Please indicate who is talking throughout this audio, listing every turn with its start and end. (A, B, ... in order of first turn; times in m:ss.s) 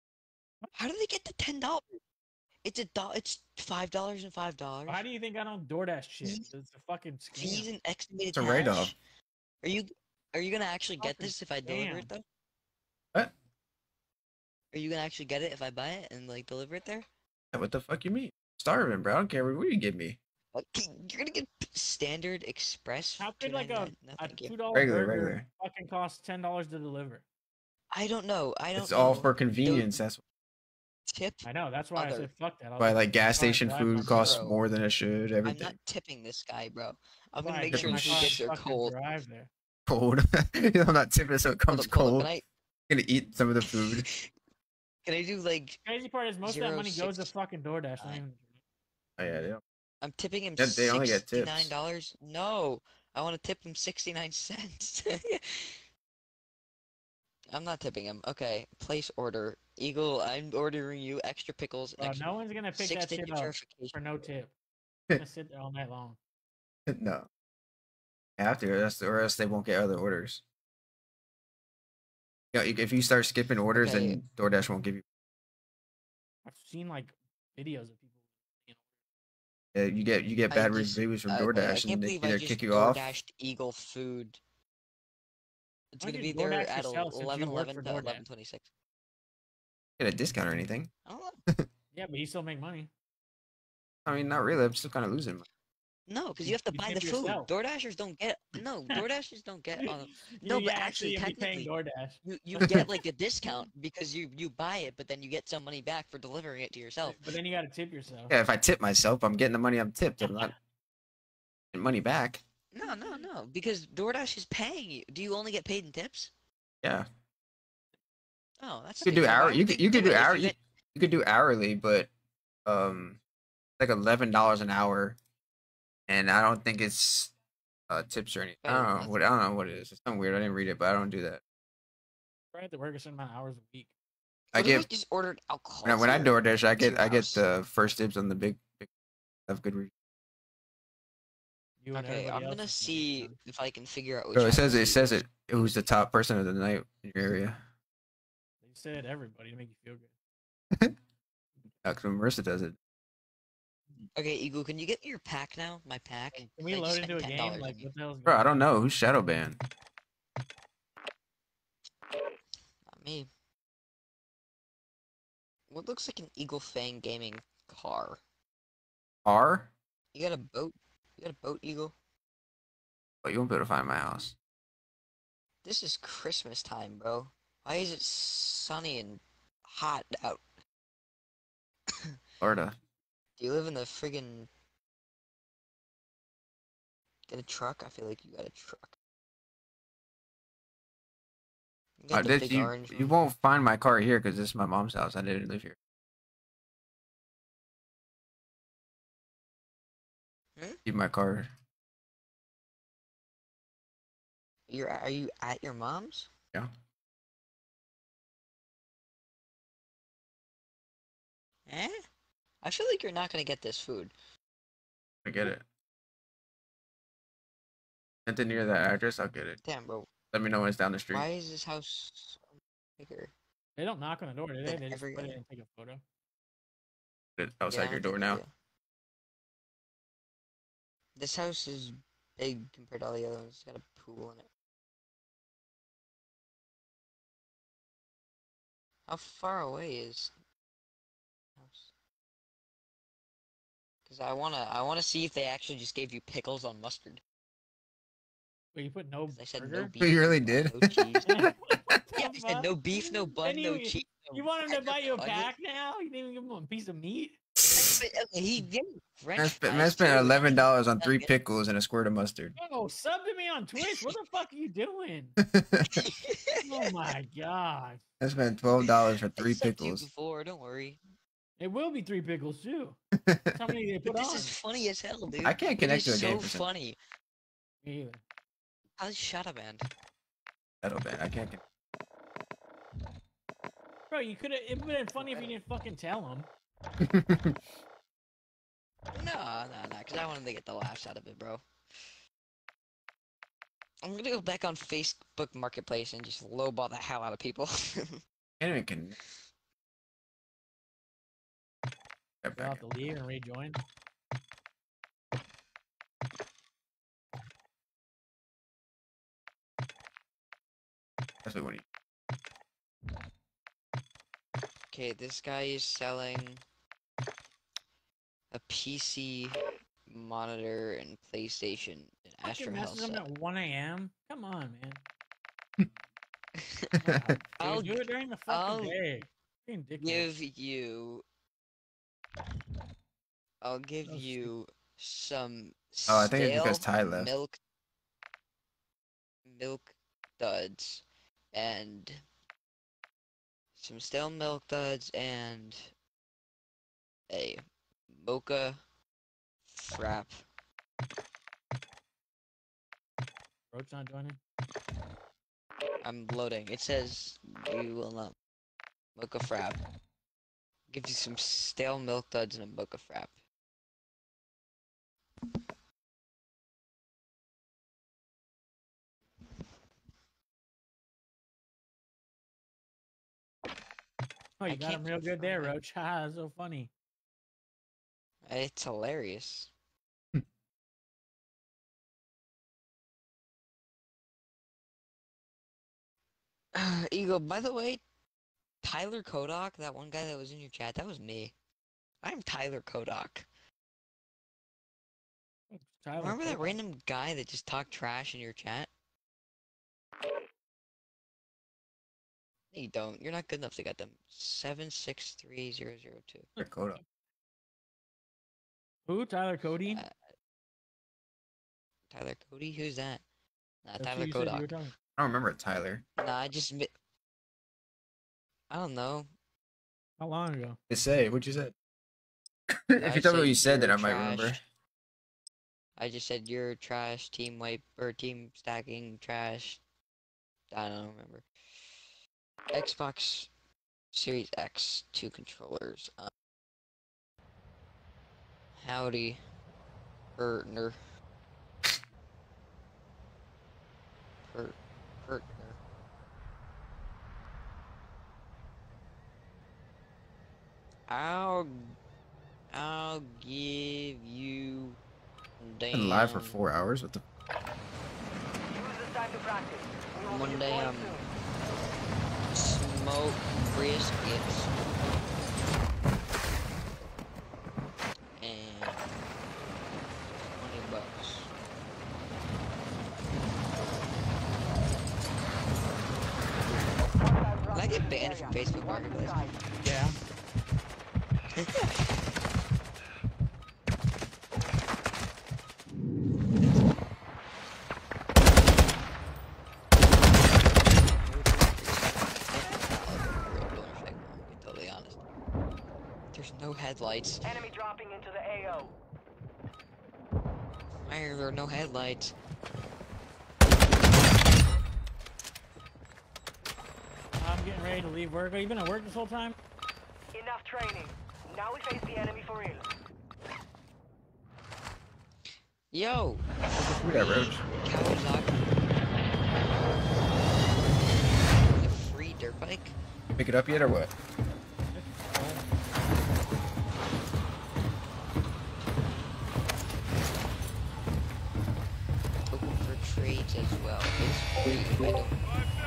0:00.8-0:02.0 A
0:02.6-0:05.0 A
0:04.9-0:07.7 B
0:06.2-0:06.5 A
0:07.3-0:09.0 A
0:08.3-0:08.9 C
0:09.6-0:12.2 A
0:11.0-0:12.1 B
0:14.7-0:17.1 A
0:17.5-0:20.2 C
0:20.5-0:24.6 A
0:23.2-0:27.2 B
0:24.7-0:25.4 C
0:27.9-0:30.0 A
0:28.8-0:30.2 C
0:31.1-0:32.3 A
0:31.4-0:34.4 B
0:32.8-0:35.8 C
0:34.0-0:34.6 A
0:35.4-0:39.0 A
0:37.4-0:39.5 B
0:37.7-0:38.4 C
0:39.9-0:42.3 C
0:41.7-0:42.4 A
0:42.9-0:44.1 C
0:43.6-0:44.3 A
0:45.0-0:45.8 A
0:45.8-0:48.5 B
0:46.4-0:47.3 A
0:48.0-0:48.2 A
0:49.2-0:49.6 C
0:50.0-0:55.7 A
0:50.6-0:51.7 C
0:57.5-1:04.0 A
1:02.0-1:04.5 B
1:05.2-1:06.2 B
1:06.9-1:07.3 C
1:08.4-1:10.4 C
1:12.5-1:15.0 C
1:13.7-1:14.2 A
1:16.4-1:18.8 B
1:19.7-1:23.2 C
1:20.5-1:24.4 A
1:25.9-1:28.6 A
1:26.0-1:28.2 B
1:30.0-1:30.9 C
1:31.0-1:31.4 A
1:31.9-1:32.9 B
1:34.0-1:35.4 C
1:34.1-1:34.6 B
1:36.1-1:41.7 A
1:36.4-1:37.5 B
1:39.8-1:42.7 B
1:42.2-1:47.2 A
1:47.0-1:48.3 B
1:48.3-1:50.5 C
1:50.2-1:50.5 B
1:51.7-1:52.4 C
1:52.7-1:56.3 A
1:52.8-1:53.3 B
1:56.8-1:57.1 C
1:58.6-2:00.6 A
1:59.0-2:02.1 C
2:02.6-2:03.2 C
2:03.8-2:05.2 C
2:06.1-2:07.3 C
2:07.9-2:11.4 C
2:08.6-2:09.2 A
2:12.5-2:13.9 B
2:14.5-2:14.9 C
2:14.5-2:17.5 A
2:15.8-2:18.9 C
2:19.5-2:19.9 C
2:21.8-2:23.4 B
2:21.9-2:25.8 A
2:24.3-2:27.6 C
2:28.6-2:30.1 B
2:31.8-2:32.8 C
2:34.2-2:37.9 A
2:36.4-2:38.7 B
2:38.3-2:39.6 C
2:42.9-2:43.3 A
2:45.7-2:48.2 A
2:49.2-2:49.7 C
2:50.1-2:51.9 A
2:53.2-2:54.4 C
2:55.6-3:00.4 A
3:02.4-3:02.8 C
3:03.4-3:04.5 A
3:07.3-3:08.9 A
3:12.0-3:13.1 A
3:12.1-3:15.8 C
3:20.9-3:21.5 C
3:24.7-3:26.3 A
3:31.7-3:31.9 A
3:32.6-3:34.1 A
3:35.2-3:35.6 C
3:38.3-3:39.6 C
3:39.6-3:40.1 A
3:40.3-3:41.3 C
3:41.1-3:42.4 A
3:43.0-3:43.3 A
3:43.8-3:46.0 B
3:44.6-3:45.4 A
3:47.4-3:48.4 C
3:47.7-3:48.5 A
3:51.2-3:54.5 A
3:59.1-4:00.3 A
4:01.6-4:01.9 A
4:04.1-4:07.2 A
4:08.8-4:09.9 B
4:09.3-4:11.3 A
4:10.0-4:12.0 C
4:11.3-4:17.4 B
4:12.1-4:15.5 A
4:17.6-4:21.3 A
4:19.4-4:22.6 C
4:22.6-4:25.4 B
4:25.4-4:25.9 C
4:25.9-4:26.6 A
4:26.6-4:28.0 B
4:28.2-4:30.1 C
4:29.4-4:31.0 A
4:31.6-4:33.0 B
4:33.2-4:33.6 C
4:33.6-4:34.5 B
4:34.0-4:37.0 A
4:35.4-4:36.7 C
4:37.8-4:38.2 B
4:39.0-4:39.9 A
4:40.8-4:41.6 C
4:44.1-4:46.5 B
4:45.2-4:45.6 A
4:47.0-4:47.5 C
4:49.1-4:51.6 A
4:54.0-4:58.2 A
4:58.6-4:59.2 C
5:02.4-5:02.8 C
5:02.6-5:03.8 B
5:11.4-5:11.8 C
5:14.9-5:16.6 A
5:18.5-5:23.2 A
5:22.4-5:25.0 B
5:26.6-5:26.9 A
5:27.0-5:30.3 B
5:27.6-5:28.0 A
5:28.5-5:29.0 A
5:30.0-5:31.2 A
5:33.6-5:37.6 A
5:34.0-5:34.5 B
5:36.1-5:37.3 C
5:39.5-5:42.2 A
5:43.8-5:45.9 A
5:47.3-5:48.8 A
5:49.7-5:50.3 A
5:53.7-5:54.4 B
5:56.0-5:58.4 A
5:59.2-5:59.8 A
6:00.9-6:03.3 A
6:14.6-6:16.9 B
6:14.6-6:15.8 A
6:18.4-6:19.7 A
6:26.7-6:28.0 A
6:28.8-6:31.5 A
6:32.2-6:33.5 A
6:35.7-6:36.8 B
6:36.2-6:38.9 A
6:42.7-6:46.5 A
6:46.6-6:47.0 B
6:46.6-6:47.0 C
6:49.1-6:50.0 B
6:49.9-6:50.1 A
6:52.1-6:53.2 A
6:53.8-6:54.7 A
6:54.0-6:54.9 B
6:55.2-6:56.0 C
6:56.2-6:56.9 A
6:58.7-6:59.3 A
7:00.2-7:00.8 B
7:00.9-7:01.7 C
7:02.9-7:04.6 C
7:03.0-7:04.6 A
7:06.0-7:09.8 A
7:10.7-7:11.4 A
7:12.7-7:13.5 A
7:14.1-7:16.3 A
7:18.8-7:19.4 A
7:20.4-7:21.0 A
7:24.5-7:25.8 A
7:31.1-7:31.9 A
7:32.7-7:35.0 A
7:35.6-7:36.6 A
7:35.9-7:37.2 C
7:39.0-7:39.8 D
7:40.3-7:41.2 A
7:42.5-7:44.8 A
7:48.4-7:49.0 A
7:50.6-7:51.5 A
7:57.7-7:59.5 A
7:59.8-8:00.2 B
8:01.6-8:01.9 A
8:10.8-8:15.2 A
8:16.3-8:17.6 A
8:17.8-8:18.7 D
8:21.0-8:22.4 A
8:27.4-8:29.6 B
8:30.4-8:31.0 D
8:31.6-8:32.8 D
8:35.9-8:38.6 A
8:36.7-8:37.6 C
8:41.6-8:43.0 A
8:43.3-8:44.1 C
8:44.9-8:45.7 B
8:52.5-8:55.4 A